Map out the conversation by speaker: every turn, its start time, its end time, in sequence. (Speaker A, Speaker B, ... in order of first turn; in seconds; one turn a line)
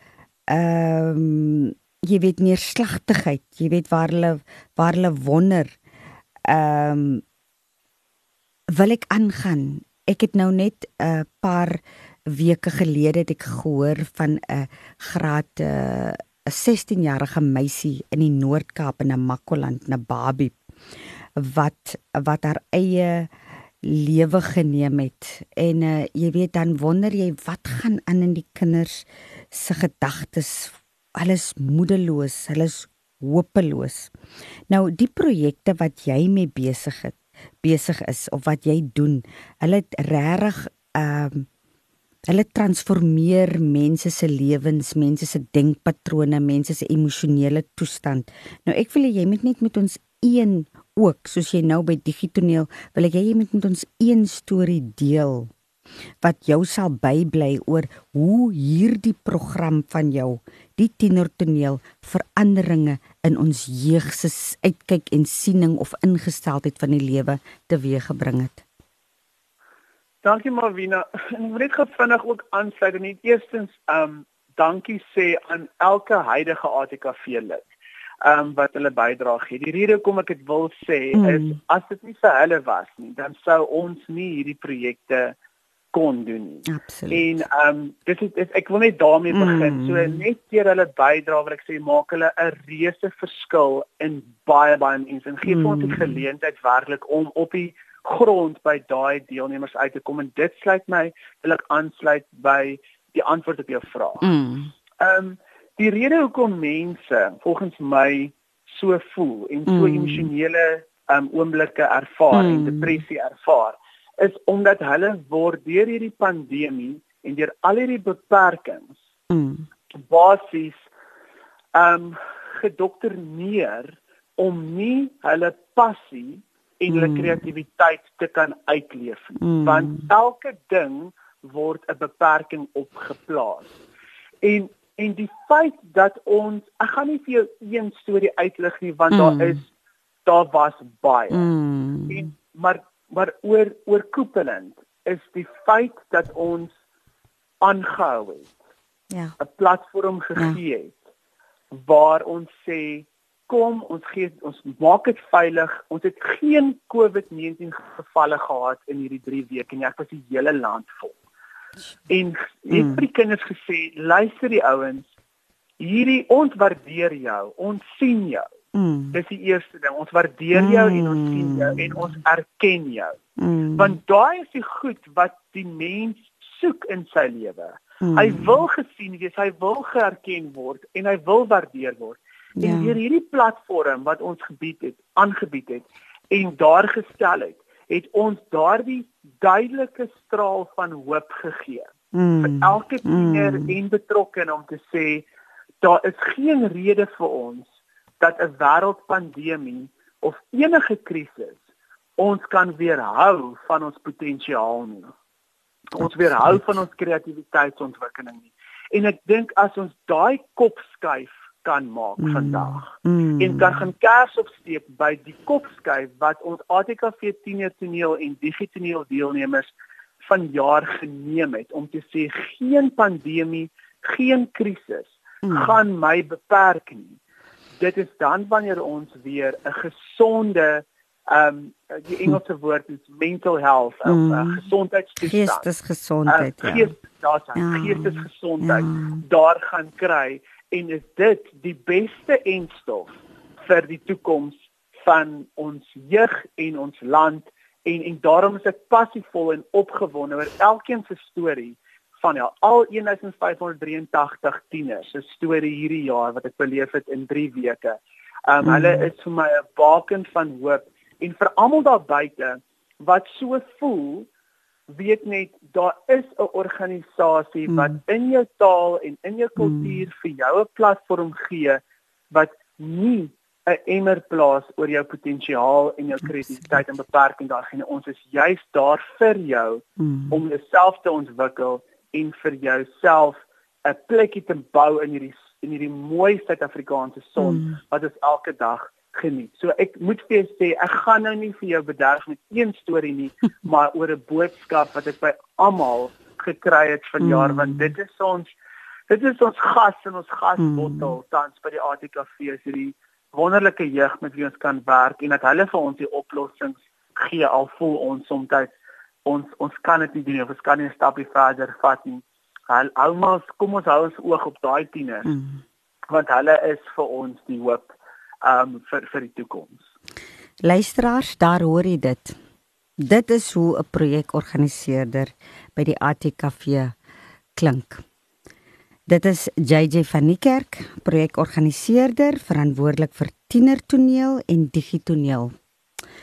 Speaker A: 0.5-5.7
Speaker A: 6.5-7.2
Speaker A: 8.7-20.6
Speaker A: 21.4-23.3
Speaker A: 23.8-34.1
Speaker A: 34.7-41.5
Speaker A: 42.3-55.5
Speaker A: 56.2-68.6
Speaker B: 70.2-77.7
Speaker B: 78.2-85.3
Speaker A: 81.1-81.5
Speaker B: 85.9-104.2
Speaker A: 86.7-87.4
Speaker A: 89.3-90.2
Speaker A: 95.5-96.2
Speaker A: 104.2-104.7
Speaker B: 105.0-119.0
Speaker A: 109.7-110.3
Speaker A: 112.3-113.0
Speaker A: 119.3-119.7
Speaker B: 120.1-120.8
Speaker B: 121.7-133.7
Speaker A: 126.9-127.4
Speaker A: 129.4-130.1
Speaker B: 134.4-139.7
Speaker A: 139.1-139.6
Speaker B: 140.2-141.5
Speaker A: 141.3-142.3
Speaker B: 142.1-146.7
Speaker B: 147.6-148.5
Speaker B: 149.4-151.0
Speaker B: 151.7-161.2
Speaker B: 162.1-165.1
Speaker A: 162.7-163.0
Speaker B: 165.8-168.4
Speaker A: 168.7-169.2
Speaker B: 169.1-173.2
Speaker A: 170.5-172.0
Speaker A: 173.4-174.0
Speaker B: 173.8-195.2
Speaker A: 178.0-178.6
Speaker A: 182.6-183.0
Speaker A: 192.1-193.7
Speaker B: 195.8-197.7
Speaker B: 198.2-201.6
Speaker B: 202.2-205.1
Speaker B: 205.9-219.7
Speaker A: 206.0-206.6
Speaker A: 212.2-213.8
Speaker B: 220.2-227.2
Speaker A: 225.4-225.7
Speaker B: 227.8-235.7
Speaker A: 234.1-234.7
Speaker A: 235.2-236.9
Speaker B: 236.3-264.3
Speaker A: 237.6-239.2
Speaker A: 258.6-259.1
Speaker B: 264.9-298.5
Speaker A: 269.6-269.9
Speaker A: 280.0-280.4
Speaker A: 287.4-287.8
Speaker A: 297.2-297.9
Speaker B: 299.1-308.7
Speaker A: 300.6-301.1
Speaker B: 309.2-315.3
Speaker A: 315.2-315.6
Speaker B: 316.1-319.8
Speaker A: 320.6-322.4
Speaker A: 323.0-326.9
Speaker A: 327.6-328.0
Speaker A: 329.1-335.5